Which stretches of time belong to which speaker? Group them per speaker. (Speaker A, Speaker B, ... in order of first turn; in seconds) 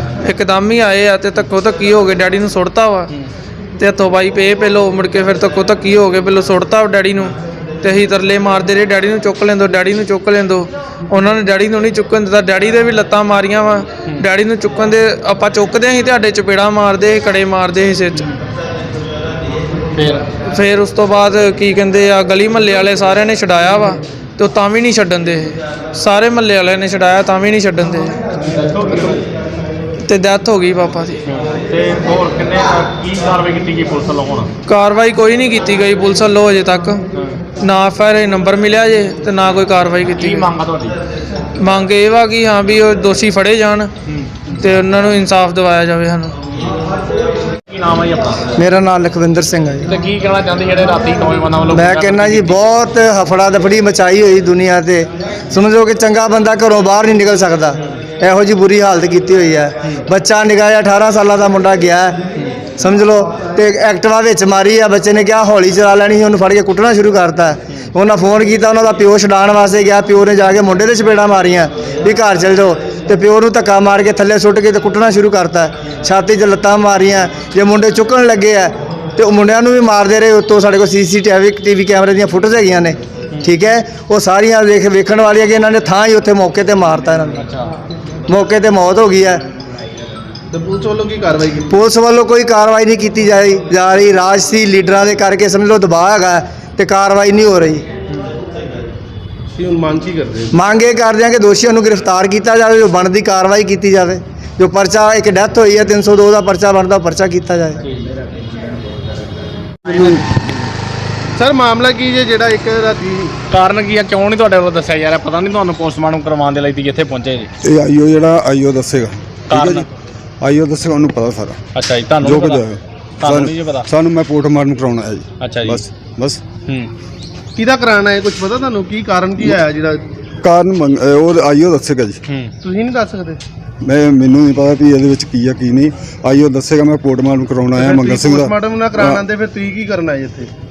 Speaker A: 0.2-3.1, 3.8-18.3, 20.5-28.2, 30.0-31.2, 34.7-37.0, 37.6-40.5, 41.6-43.9, 44.5-46.4
Speaker B: 19.9-20.3, 28.4-29.2, 31.3-34.5, 37.1-37.4, 40.2-41.0, 44.1-44.5, 47.7-48.5, 49.9-52.6, 87.3-87.7, 109.8-110.4, 113.5-117.5, 119.5-119.9, 121.8-122.6, 123.2-123.9, 125.4-125.8, 132.3-132.5
Speaker C: 48.6-49.9, 51.7-62.2, 62.8-87.4, 88.3-89.4, 91.7-97.8, 100.5-107.8
Speaker D: 90.5-91.7, 99.5-100.5, 111.4-113.4, 127.6-130.0, 132.6-133.4, 137.8-140.5
Speaker E: 117.6-119.9, 120.4-121.6, 122.2-126.4, 130.4-132.2, 133.8-139.2